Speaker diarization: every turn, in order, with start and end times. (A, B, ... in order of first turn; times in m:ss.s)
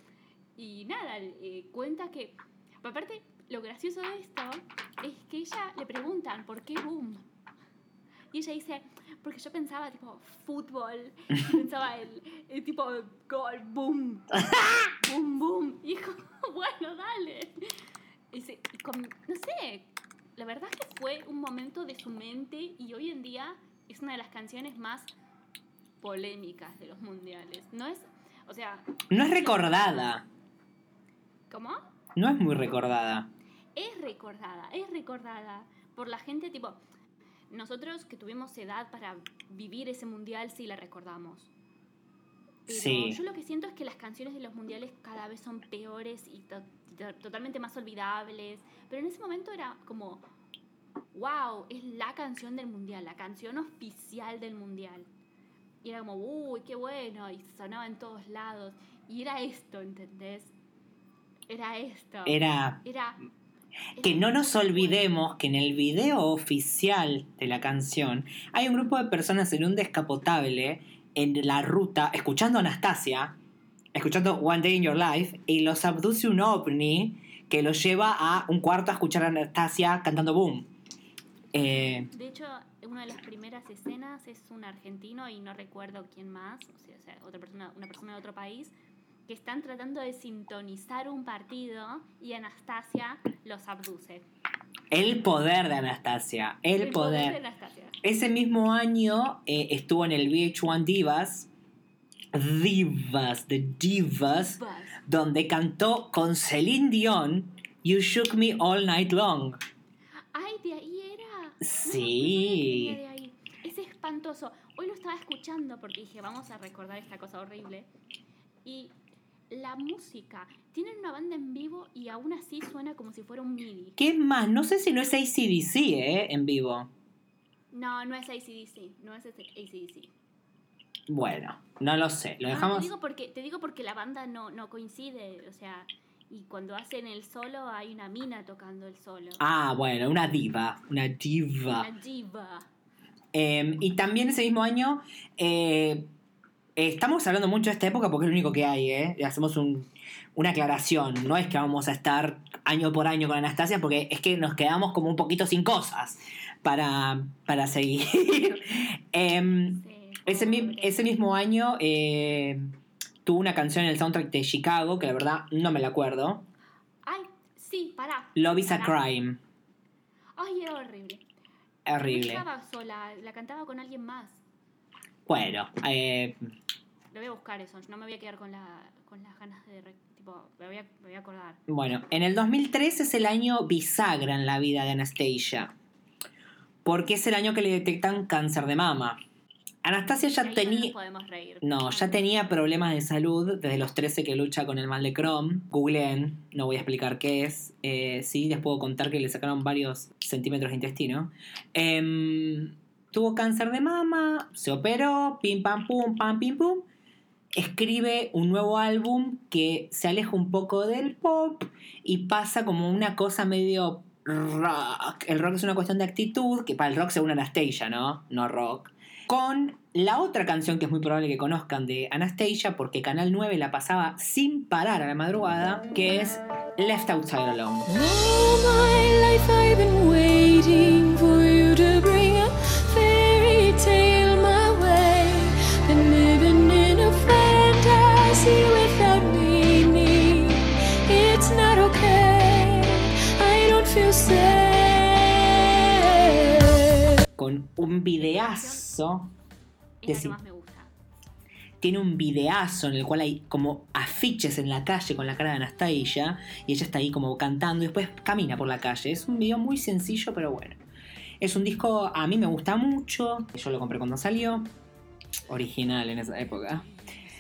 0:00.6-0:07.2 A
0:08.3-0:17.8 A
0:18.3-0:25.1 A
0:26.0-0:30.2 A
0:29.1-0:30.2 B
0:31.5-0:31.8 A
0:32.2-0:33.3 B
0:33.8-0:36.8 A
0:37.5-0:41.5 A
0:42.7-0:50.2 A
0:42.7-0:43.2 B
0:51.1-0:55.1 A
0:55.8-1:00.5 A
1:01.5-1:03.2 A
1:02.3-1:02.8 B
1:04.0-1:05.2 A
1:04.0-1:13.4 B
1:13.9-1:20.7 B
1:21.5-1:22.1 B
1:22.1-1:28.7 A
1:29.3-1:34.3 A
1:34.9-1:37.4 B
1:36.8-1:38.0 A
1:38.0-1:41.5 B
1:42.3-1:49.6 B
1:44.3-1:45.0 A
1:50.3-1:57.9 A
1:51.6-1:53.0 B
1:58.6-1:59.0 A
1:59.5-2:04.0 A
2:04.0-2:06.9 B
2:07.7-2:10.1 A
2:11.1-2:12.9 B
2:12.5-2:19.4 A
2:19.4-2:21.9 B
2:21.7-2:22.7 A
2:23.3-2:26.1 B
2:26.8-2:42.7 B
2:39.7-2:41.0 A
2:43.2-2:46.5 B
2:47.0-2:49.0 A
2:48.4-2:49.4 B
2:50.4-2:51.3 A
2:51.9-2:52.4 B
2:52.0-2:54.4 A
2:55.3-2:56.4 B
2:57.1-3:01.6 A
3:01.7-3:05.7 B
3:06.8-3:09.2 B
3:09.8-3:10.9 B
3:10.4-3:12.2 A
3:11.6-3:26.9 B
3:27.5-3:47.9 B
3:47.9-4:06.9 C
4:07.4-4:09.3 B
4:08.2-4:08.9 A
4:10.0-4:10.9 A
4:10.1-4:10.4 B
4:11.8-4:20.8 B
4:21.4-4:24.7 B
4:25.5-4:26.9 B